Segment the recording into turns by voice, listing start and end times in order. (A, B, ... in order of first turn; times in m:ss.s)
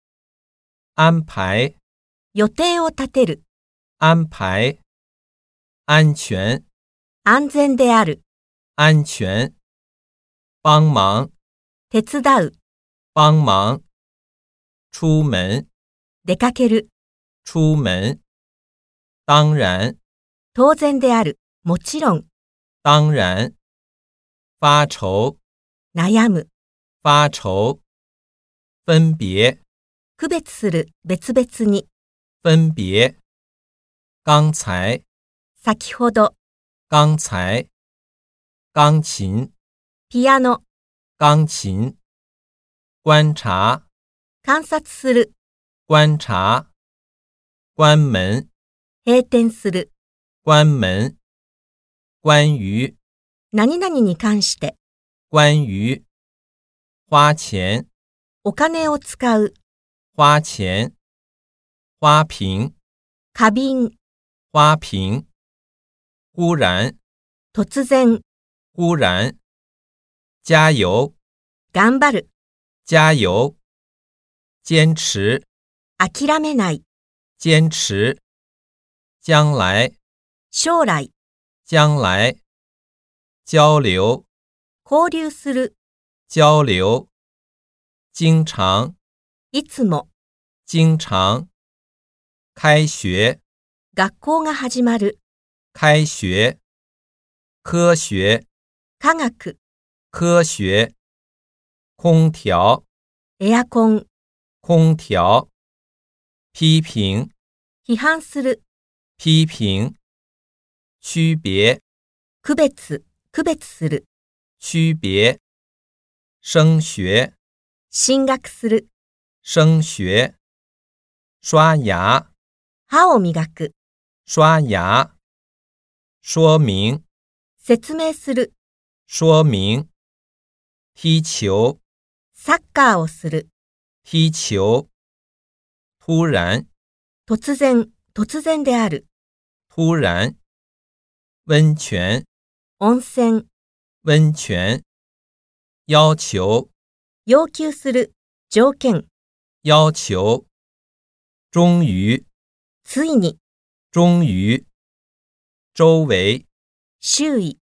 0:01.0-0:01.8 A
0:02.3-0:03.4 B
0:04.0-0:04.8 A
0:05.9-0:06.6 A
0:07.2-0:08.2 B
0:08.8-0:09.5 A
0:10.6-0:11.3 A
0:11.9-0:12.5 B
0:13.2-0:13.8 A
0:14.9-0:15.7 A
0:16.2-0:16.9 B
0:17.4-0:18.2 A
0:19.3-0:20.0 A
0:20.5-0:22.3 B
0:22.8-0:23.5 A
0:24.6-0:25.4 A
0:25.9-0:26.5 B
0:27.0-0:27.8 A
0:28.9-0:29.6 A
0:30.2-0:31.9 B
0:32.4-0:33.2 A
0:34.2-0:35.0 A
0:35.6-0:36.4 B
0:36.9-0:37.7 A
0:38.7-0:39.5 A
0:40.1-0:40.6 B
0:41.2-0:42.0 A
0:43.0-0:43.8 A
0:44.4-0:45.3 B
0:45.9-0:46.7 A
0:47.8-0:48.5 A
0:49.0-0:49.9 B
0:50.4-0:51.2 A
0:52.2-0:53.0 A
0:53.5-0:54.8 B
0:55.3-0:56.0 A
0:57.1-0:57.9 A
0:58.4-0:59.5 B
1:00.2-1:00.9 A
1:02.0-1:02.7 A
1:03.3-1:04.0 B
1:04.5-1:05.2 A
1:06.4-1:07.0 A
1:07.5-1:08.2 B
1:08.8-1:09.4 A
1:10.4-1:11.1 A
1:11.7-1:12.3 B
1:12.8-1:13.6 A
1:14.6-1:15.5 A
1:16.0-1:16.8 B
1:17.4-1:18.2 A
1:19.2-1:20.0 A
1:20.5-1:21.1 B
1:21.7-1:22.4 A
1:23.5-1:24.2 A
1:24.8-1:25.7 B
1:26.3-1:27.1 A
1:28.1-1:29.0 A
1:29.5-1:30.1 B
1:30.7-1:31.5 A
1:32.6-1:33.4 A
1:33.9-1:35.2 B
1:35.7-1:36.6 A
1:37.6-1:38.4 A
1:39.0-1:39.6 B
1:40.1-1:40.9 A
1:42.0-1:42.8 A
1:43.4-1:44.1 B
1:44.6-1:45.5 A
1:46.5-1:47.3 A
1:47.9-1:48.6 B
1:49.2-1:50.0 A
1:51.0-1:51.8 A
1:52.4-1:54.0 B
1:54.6-1:55.4 A
1:56.4-1:57.3 A
1:57.9-1:58.9 B
1:59.4-2:00.4 A
2:01.4-2:02.3 A
2:02.9-2:03.7 B
2:04.3-2:05.1 A
2:06.2-2:07.0 A
2:07.6-2:08.5 B
2:09.1-2:09.9 A
2:11.0-2:11.8 A
2:12.3-2:13.5 B
2:14.0-2:14.9 A
2:16.0-2:16.7 A
2:17.3-2:19.1 B
2:19.7-2:20.4 A
2:21.5-2:22.3 A
2:22.8-2:23.5 B
2:24.0-2:24.8 A
2:25.9-2:26.7 A
2:27.3-2:29.1 B
2:29.6-2:30.5 A
2:31.5-2:32.2 A
2:32.8-2:33.4 B
2:33.9-2:34.6 A
2:35.7-2:36.4 A
2:37.0-2:37.6 B